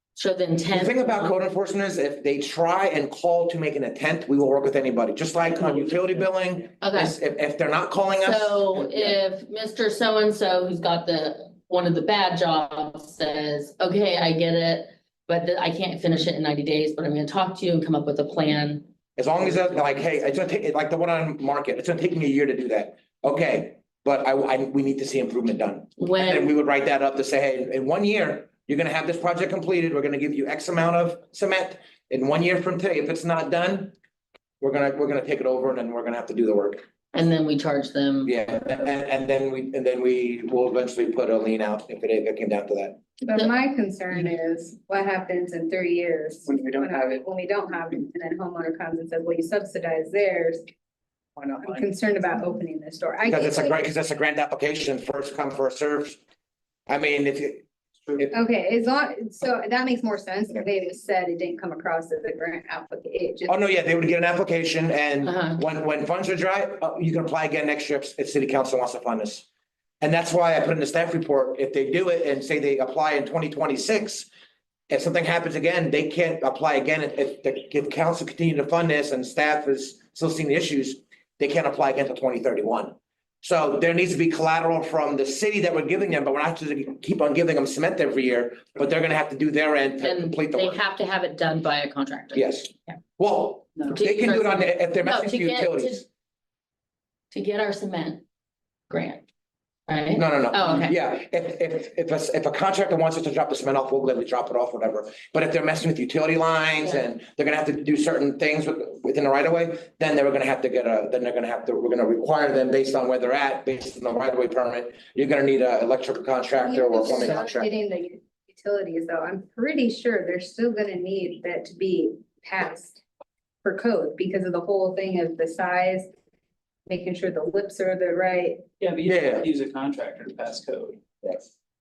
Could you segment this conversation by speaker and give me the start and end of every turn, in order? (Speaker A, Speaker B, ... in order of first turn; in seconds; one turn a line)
Speaker A: 0.2-1.3
Speaker B: 0.7-9.1
Speaker A: 6.8-7.2
Speaker A: 8.2-18.9
Speaker B: 19.2-34.0
Speaker A: 26.0-26.5
Speaker B: 34.6-36.8
Speaker A: 37.1-38.4
Speaker B: 38.2-43.0
Speaker C: 43.2-50.6
Speaker C: 51.6-53.8
Speaker B: 53.3-56.2
Speaker B: 56.9-58.3
Speaker C: 58.3-63.6
Speaker B: 63.5-69.5
Speaker A: 65.3-65.6
Speaker B: 70.0-74.3
Speaker B: 74.9-90.8
Speaker A: 90.0-93.0
Speaker B: 92.3-96.0
Speaker A: 93.9-96.0
Speaker A: 97.3-98.2
Speaker A: 98.9-99.2
Speaker A: 99.9-101.0
Speaker B: 100.1-117.7
Speaker C: 116.6-123.0
Speaker C: 123.6-126.1
Speaker C: 126.9-128.6
Speaker D: 128.8-131.0
Speaker B: 129.1-129.5